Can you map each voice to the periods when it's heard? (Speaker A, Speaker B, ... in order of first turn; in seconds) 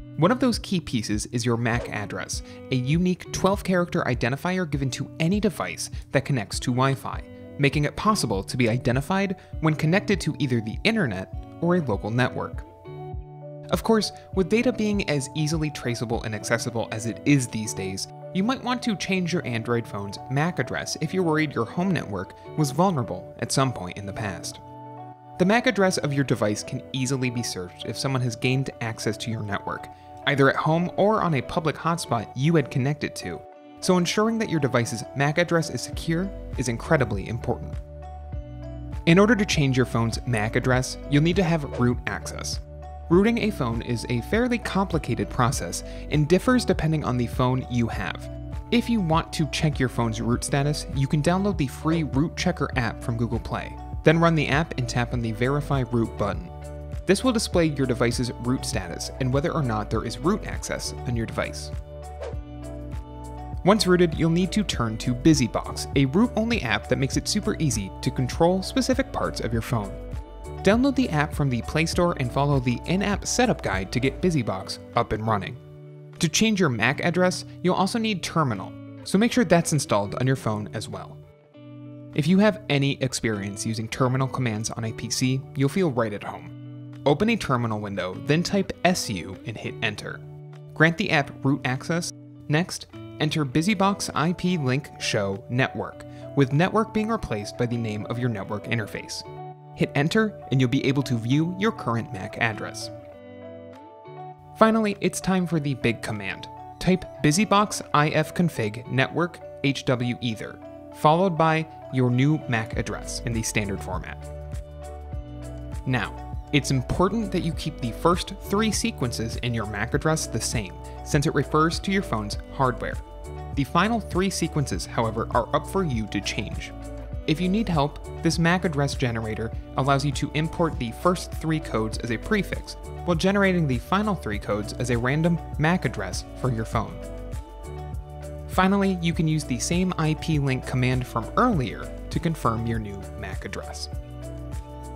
Speaker A: 0.2-12.7, 13.7-24.6, 25.4-37.8, 39.1-56.5, 57.1-61.7, 63.6-70.0, 70.6-75.6, 76.2-81.2, 82.1-102.9, 104.5-114.3, 115.8-123.0, 123.5-126.8, 127.3-137.0, 138.5-143.9